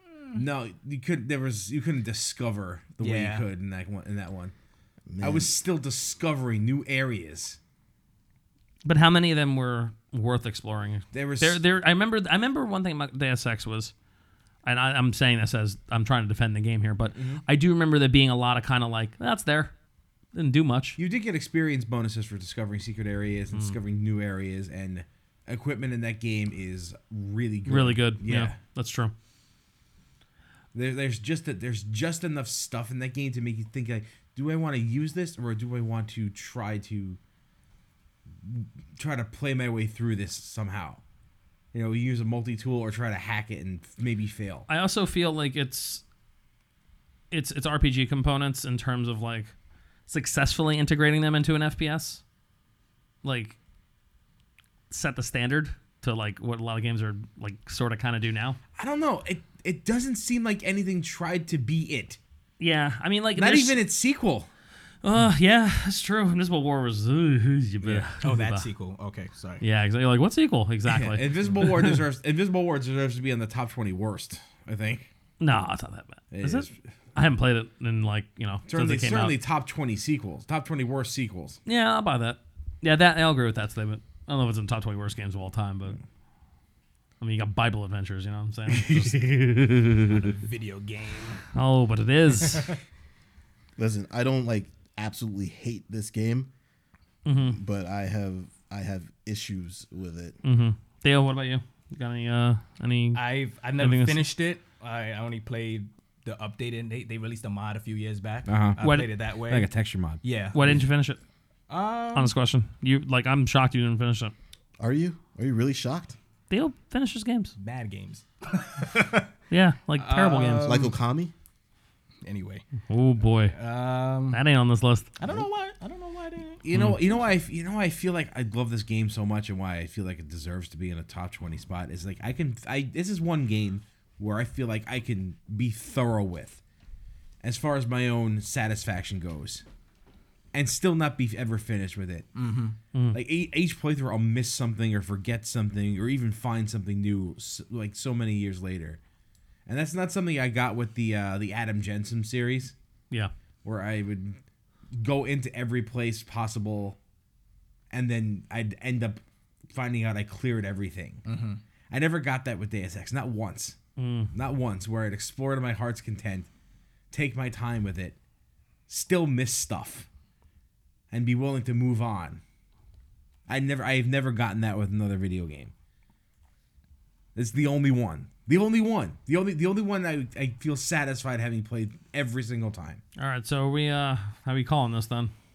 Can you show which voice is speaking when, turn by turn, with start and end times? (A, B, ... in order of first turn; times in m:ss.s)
0:00.3-0:04.5 A
0:03.0-0:03.4 B
0:05.1-0:05.5 C
0:05.2-0:07.6 A
0:08.8-0:13.9 D
0:11.1-0:11.6 A
0:14.6-0:19.7 D
0:17.1-0:17.4 A
0:20.3-0:21.0 D
0:21.0-0:28.6 A
0:27.6-0:29.1 D
0:30.7-0:37.2 A
0:38.4-0:41.0 A
0:41.7-0:44.7 A
0:44.7-0:46.0 D
0:47.3-0:49.5 D
0:50.1-0:52.2 D
0:53.2-0:53.6 D
0:54.9-0:58.6 D
0:58.8-1:02.2 A
1:02.6-1:03.8 D
1:03.4-1:04.5 A
1:05.0-1:08.7 D
1:08.2-1:09.6 B
1:09.6-1:12.0 D
1:10.9-1:15.1 A
1:15.4-1:19.4 D
1:16.3-1:16.7 A
1:18.7-1:21.6 A
1:21.6-1:26.0 D
1:27.2-1:29.4 D
1:28.7-1:30.3 A
1:30.1-1:31.4 B
1:31.5-1:32.7 D
1:33.8-1:36.5 C
1:37.2-1:37.6 D
1:37.4-1:40.4 C
1:40.4-1:43.2 D
1:43.1-1:49.7 B
1:43.8-1:44.2 D
1:48.5-1:48.8 A
1:48.8-1:49.1 D
1:49.4-1:50.2 A
1:50.2-1:50.6 B
1:50.5-1:51.2 D
1:51.7-1:52.3 B
1:52.1-1:54.3 D
1:54.8-1:56.2 C
1:56.5-1:57.5 D
1:57.6-1:59.2 B
1:59.5-2:00.8 D
2:00.0-2:00.9 B
2:00.6-2:01.3 C
2:02.2-2:02.6 B
2:02.9-2:03.5 D
2:03.5-2:04.4 B
2:04.3-2:05.1 D
2:05.2-2:06.6 B
2:06.6-2:16.6 A
2:06.7-2:07.0 D
2:17.4-2:19.6 A
2:20.5-2:22.3 A
2:22.3-2:22.8 B
2:22.9-2:23.2 D
2:23.1-2:29.0 A
2:29.7-2:32.7 A
2:33.6-2:34.4 A
2:34.9-2:37.0 A
2:37.9-2:41.2 A
2:41.2-2:41.6 B
2:41.9-2:43.8 A
2:44.0-2:44.3 D
2:44.3-2:46.5 A
2:47.1-2:48.2 A
2:48.9-2:50.1 A
2:51.1-2:52.4 A
2:53.5-2:55.7 A
2:57.3-3:03.0 A
3:03.2-3:05.3 D